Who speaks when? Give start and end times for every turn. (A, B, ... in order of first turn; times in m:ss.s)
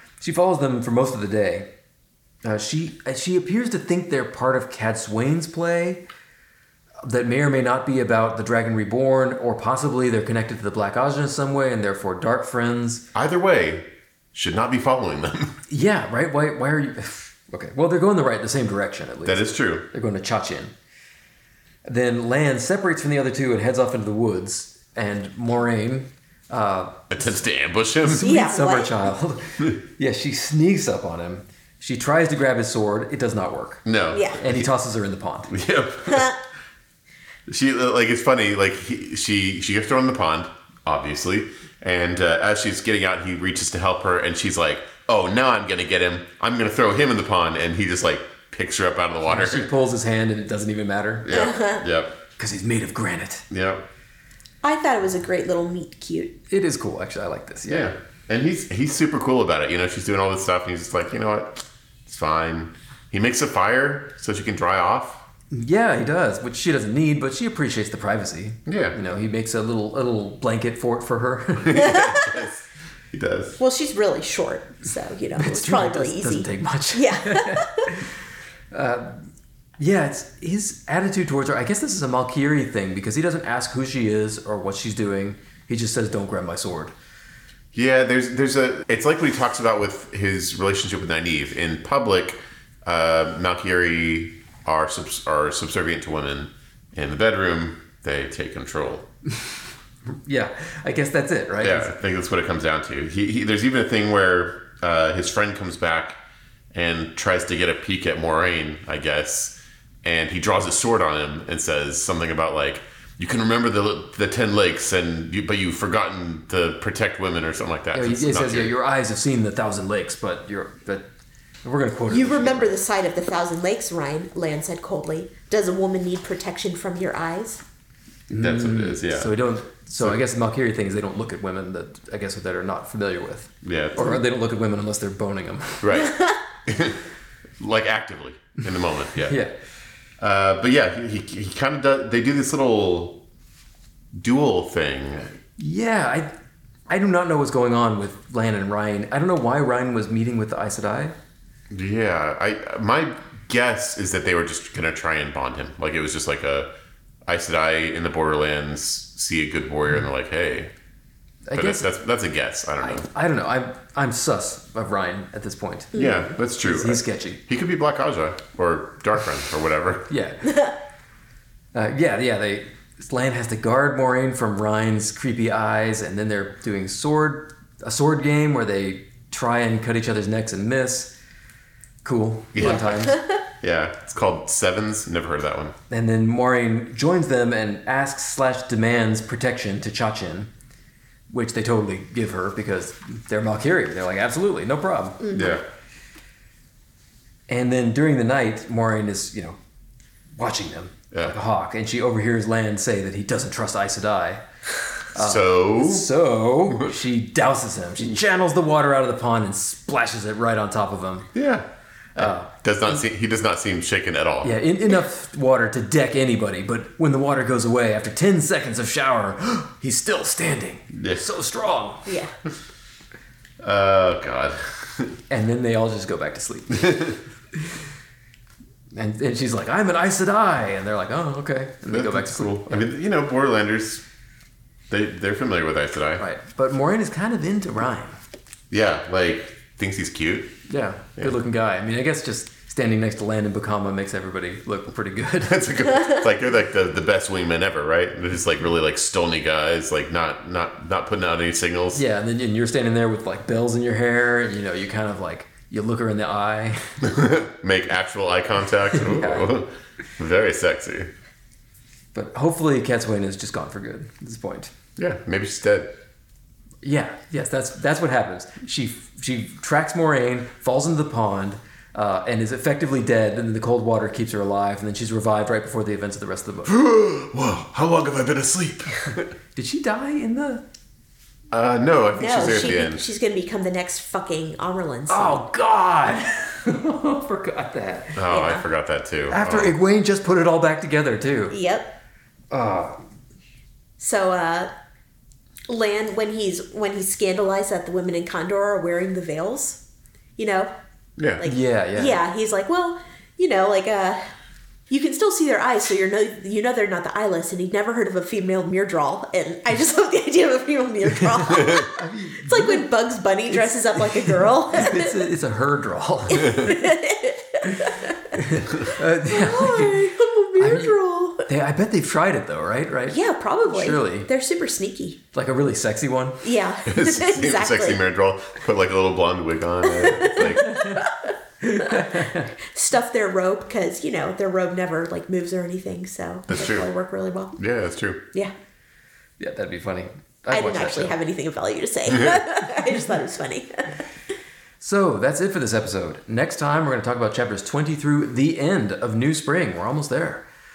0:00.2-0:01.7 A
0:02.4-0:06.0 A
0:07.0-0:13.1 A
0:13.1-0:15.6 B
0:15.7-0:20.7 A
0:19.2-0:19.8 B
0:21.8-0:27.4 A
0:27.1-0:28.3 B
0:28.0-0:33.8 A
0:28.2-0:29.0 C
0:33.9-0:34.7 B
0:34.1-0:34.4 C
0:34.4-0:35.5 A
0:35.5-0:36.3 B
0:36.1-0:36.4 C
0:37.5-0:49.7 B
0:49.3-0:51.3 A
0:51.3-0:52.2 B
0:51.3-0:51.8 C
0:52.4-0:53.5 A
0:53.5-0:53.8 B
0:54.6-0:56.3 C
0:56.5-0:57.9 A
0:57.7-1:05.2 B
1:05.5-1:12.2 A
1:08.7-1:09.0 B
1:11.6-1:12.6 B
1:11.8-1:12.3 C
1:13.1-1:13.6 B
1:13.6-1:17.9 C
1:15.4-1:18.1 A
1:18.7-1:26.9 A
1:27.7-1:39.0 B
1:40.1-1:41.9 A
1:41.6-1:46.2 B
1:46.7-1:58.7 B
1:57.9-2:01.1 A
2:01.6-2:02.7 A
2:02.1-2:07.6 C
2:08.3-2:15.9 A
2:08.4-2:09.3 B
2:13.6-2:14.2 B
2:15.8-2:16.2 B
2:15.9-2:16.4 C
2:16.7-2:17.0 B
2:17.6-2:19.4 B
2:19.2-2:19.5 A
2:20.2-2:23.2 B
2:24.1-2:25.4 B
2:25.6-2:26.3 A
2:26.9-2:31.2 A
2:31.7-2:36.7 B
2:37.3-2:40.7 B
2:41.5-2:41.9 A
2:41.5-2:43.1 B
2:42.8-2:46.0 A
2:45.9-2:46.3 C
2:46.0-2:50.1 B
2:46.6-2:47.4 A
2:50.1-2:50.5 A
2:50.4-2:50.7 C
2:51.7-3:01.1 A
3:02.0-3:03.2 A
3:02.5-3:05.8 B
3:02.6-3:03.4 C
3:05.9-3:10.5 A
3:11.3-3:15.3 A
3:15.2-3:15.6 C
3:15.3-3:15.6 B
3:17.5-3:19.6 A
3:20.4-3:24.4 A
3:25.1-3:31.3 A
3:25.2-3:26.1 B
3:31.4-3:34.5 B
3:32.2-3:33.0 A
3:34.4-3:42.1 A
3:40.9-3:41.3 B
3:42.1-3:42.3 C
3:43.6-3:45.2 B
3:45.3-3:47.8 A
3:46.8-3:47.2 B
3:48.9-3:52.9 A
3:51.9-3:54.0 B
3:54.9-3:56.2 B
3:56.2-3:58.2 A
3:58.7-4:00.5 B
4:00.7-4:05.7 A
4:05.4-4:12.0 B
4:11.9-4:16.9 A
4:17.0-4:21.1 B
4:18.9-4:19.5 A
4:22.1-4:24.7 A
4:25.0-4:25.9 B
4:26.8-4:36.8 A
4:36.7-4:39.3 B
4:39.6-4:40.6 A
4:41.5-4:43.0 B
4:42.2-4:45.4 C
4:45.1-4:48.5 A
4:48.2-4:49.8 B
4:48.3-4:48.6 C
4:49.3-4:51.6 A
4:51.5-4:52.0 C
4:52.5-4:53.0 A
4:54.0-4:54.7 C
4:55.7-4:59.8 C
5:00.4-5:00.7 C
5:01.2-5:01.5 B
5:01.4-5:04.3 C
5:01.4-5:02.2 A
5:04.9-5:15.2 C
5:11.8-5:12.9 A
5:13.5-5:16.8 A
5:16.3-5:21.5 C
5:18.3-5:20.9 A
5:21.5-5:24.3 A
5:23.1-5:25.2 C
5:25.3-5:26.5 A
5:26.4-5:28.0 C
5:26.8-5:30.7 B
5:29.9-5:37.6 C
5:30.7-5:31.0 A
5:31.6-5:32.5 A
5:36.5-5:36.9 B
5:37.6-5:38.2 B
5:39.4-5:41.2 A
5:40.5-5:44.0 C
5:44.8-5:50.4 A